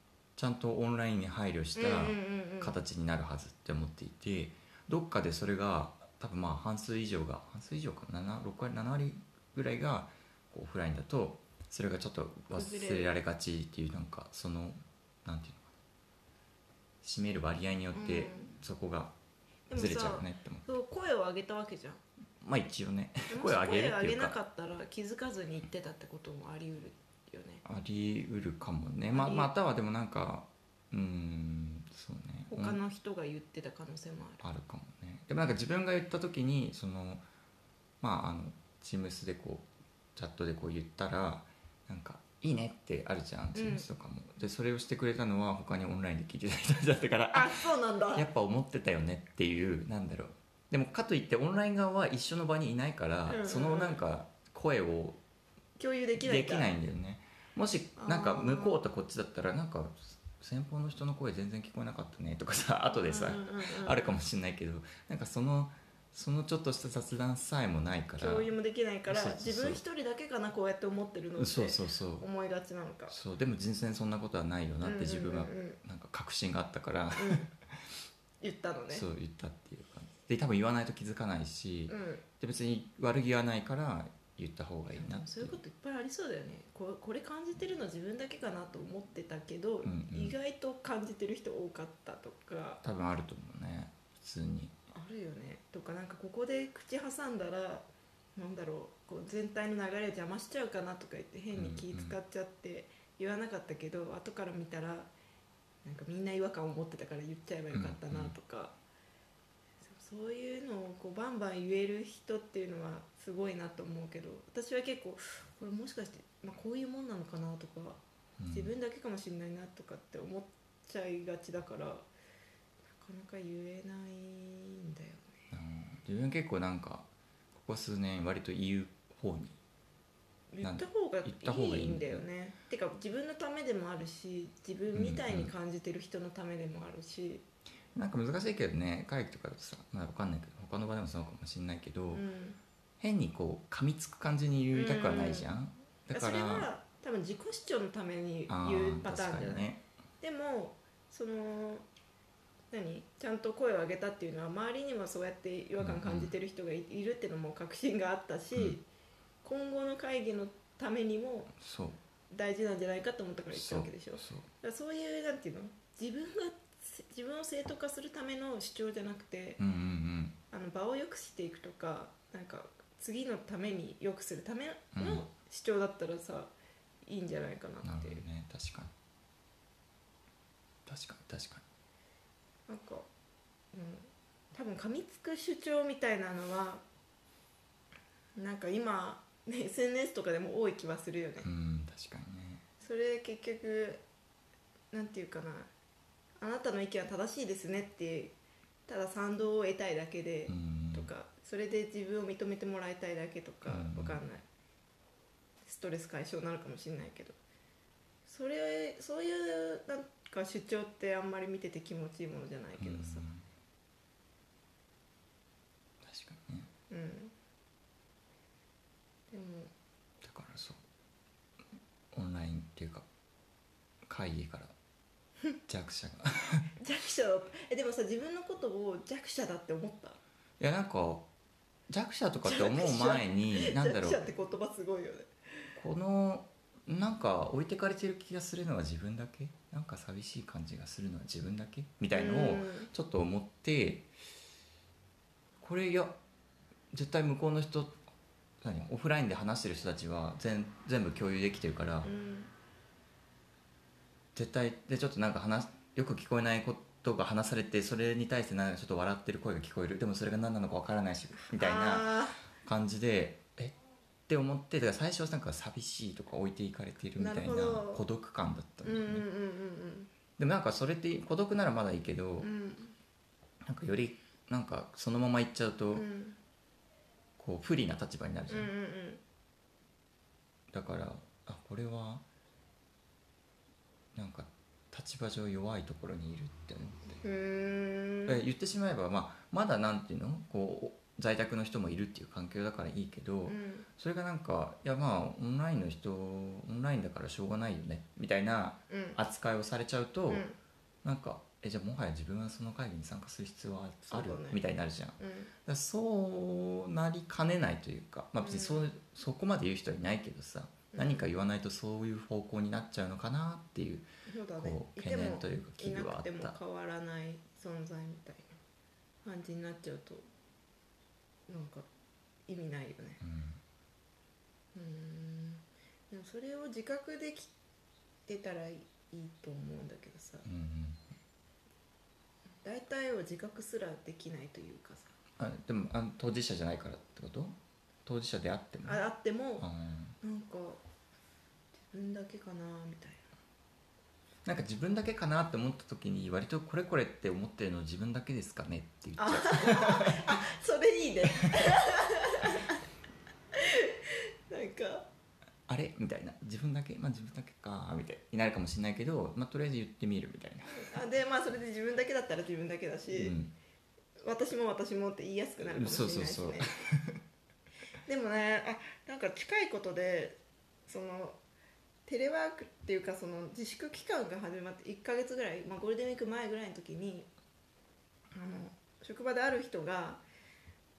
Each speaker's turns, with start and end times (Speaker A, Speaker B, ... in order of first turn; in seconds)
Speaker A: 0.4-15.7, 17.0-19.1, 19.7-20.7, 22.4-24.3, 27.6-32.8, 34.4-37.2, 38.0-47.6, 48.1-55.2, 56.2-68.5, 69.1-69.8, 71.3-72.2, 73.1-77.7, 78.9-85.6, 89.8-90.3, 92.8-94.7, 101.5-102.2, 107.7-108.3, 118.4-118.7, 125.5-129.6, 130.6-132.2, 134.9-135.5, 137.9-142.2, 143.0-146.7, 148.5-149.8, 155.8-156.3, 161.6-162.0, 163.5-164.5, 169.6-170.4, 174.9-175.2, 177.8-178.9, 180.8-181.6, 191.4-192.6, 200.5-201.1, 203.6-204.2, 212.8-213.4, 216.0-216.7, 220.2-220.8, 222.1-223.1, 224.1-224.7, 225.7-226.7, 230.6-231.3, 231.9-234.3, 235.8-244.1, 245.6-246.1, 246.9-248.0, 248.6-252.1, 254.3-263.7, 264.3-269.2, 270.4-272.5, 273.6-276.1, 277.4-278.7, 280.7-282.2, 284.1-287.2, 288.3-300.5, 301.0-314.1, 314.6-316.6, 323.2-323.6, 330.4-331.1, 335.4-339.0, 339.6-340.2, 344.4-350.2, 355.7-360.9, 363.1-363.5, 365.6-367.2
Speaker B: 1.8-2.8, 12.5-13.1, 17.9-18.6, 19.7-22.0, 23.3-27.6, 29.1-29.5, 32.5-34.4, 43.5-43.9, 47.3-48.3, 53.3-54.0, 55.8-56.7, 58.0-58.8, 62.9-64.2, 68.2-73.1, 74.8-75.8, 77.1-77.5, 78.4-79.0, 81.9-82.2, 84.9-92.8, 94.9-105.1, 105.8-108.7, 109.8-122.1, 122.9-125.4, 130.5-137.4, 142.1-142.6, 144.7-145.5, 146.1-149.7, 150.2-151.8, 152.7-158.8, 159.4-161.5, 162.3-169.6, 170.5-176.5, 177.0-178.2, 182.7-183.1, 183.7-186.8, 188.3-191.5, 192.8-194.0, 194.9-195.7, 196.4-198.3, 198.9-204.4, 205.6-207.3, 208.2-213.3, 216.9-217.3, 219.3-219.7, 226.8-230.2, 232.4-235.3, 242.1-242.9, 252.0-252.5, 261.4-262.4, 267.2-268.0, 268.8-270.1, 272.4-272.9, 275.9-276.4, 278.5-279.2, 287.2-288.4, 293.5-293.9, 298.9-299.2, 300.3-300.6, 304.1-304.6, 305.2-305.5, 308.4-308.9, 310.9-311.3, 314.2-318.6, 319.2-320.2, 321.5-321.9, 322.5-323.2, 324.7-327.5, 328.3-330.5, 332.6-335.1, 338.8-339.7, 340.2-340.8, 341.9-343.2, 349.2-352.8, 353.5-355.1, 360.7-363.4, 364.2-366.8, 368.0-371.4, 372.1-377.3, 378.3-380.2